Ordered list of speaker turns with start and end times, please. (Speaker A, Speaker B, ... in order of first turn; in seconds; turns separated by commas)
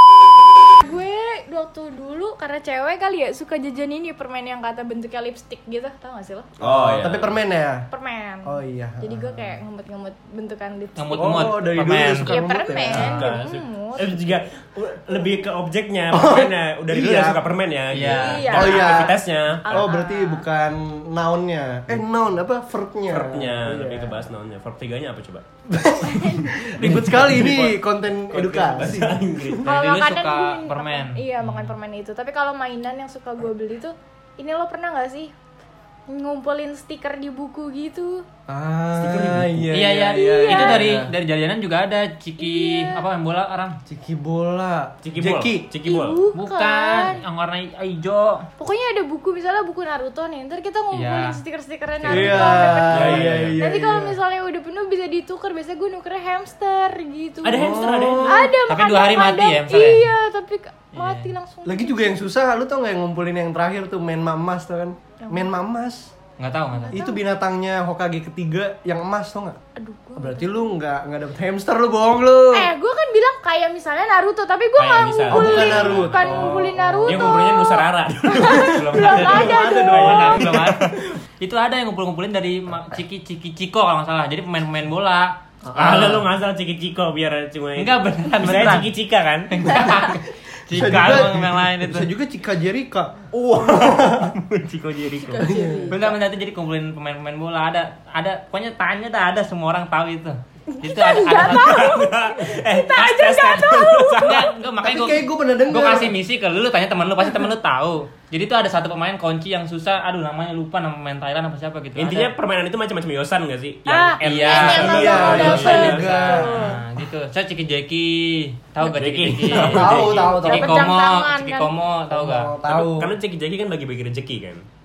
Speaker A: 0.8-6.5, Speaker B: 6.6-7.4, Speaker C: 6.6-7.9, Speaker A: 7.9-11.5, Speaker C: 8.4-9.6, Speaker D: 11.0-12.3, Speaker C: 11.1-13.3, Speaker A: 12.2-14.2, Speaker B: 12.9-19.9, Speaker C: 16.1-17.4, Speaker D: 17.9-18.6, Speaker A: 18.1-20.5, Speaker C: 18.5-24.2, Speaker B: 23.1-25.5, Speaker C: 25.7-29.6, Speaker A: 26.1-26.7, Speaker B: 26.8-29.6, Speaker A: 29.6-35.3, Speaker D: 29.6-31.8, Speaker A: 36.1-38.3, Speaker C: 38.5-41.1, Speaker B: 39.0-39.8, Speaker D: 39.7-43.8, Speaker A: 40.1-40.8, Speaker A: 42.4-43.0, Speaker C: 43.9-45.7, Speaker B: 45.0-46.2, Speaker A: 45.9-47.2, Speaker D: 46.4-48.5, Speaker A: 48.6-62.1, Speaker D: 50.9-51.4, Speaker D: 52.0-52.8, Speaker C: 52.1-54.2, Speaker B: 52.8-53.6, Speaker B: 57.4-58.5, Speaker C: 57.5-58.5, Speaker D: 58.7-60.1, Speaker D: 60.9-61.3, Speaker C: 61.6-66.1, Speaker A: 65.2-65.5, Speaker D: 66.4-67.0, Speaker A: 66.8-67.2, Speaker C: 66.9-69.6, Speaker A: 69.8-70.7, Speaker C: 70.2-72.7, Speaker A: 72.5-80.5, Speaker B: 74.8-81.0, Speaker C: 75.3-77.4, Speaker C: 78.9-80.9, Speaker D: 79.9-86.1, Speaker C: 85.6-86.2, Speaker B: 85.7-89.7, Speaker D: 87.8-88.9, Speaker D: 89.5-92.1, Speaker C: 90.0-94.4, Speaker B: 93.3-95.6, Speaker A: 95.2-96.0, Speaker C: 95.4-96.0, Speaker D: 95.9-101.9, Speaker A: 100.7-104.4, Speaker B: 101.3-104.5, Speaker D: 104.2-112.3, Speaker C: 104.8-106.2, Speaker B: 112.0-116.5, Speaker A: 113.9-116.8, Speaker D: 114.2-122.5, Speaker C: 114.7-116.7, Speaker B: 118.9-120.5, Speaker C: 119.7-120.9, Speaker A: 120.0-121.7, Speaker C: 122.1-123.1, Speaker B: 122.7-124.6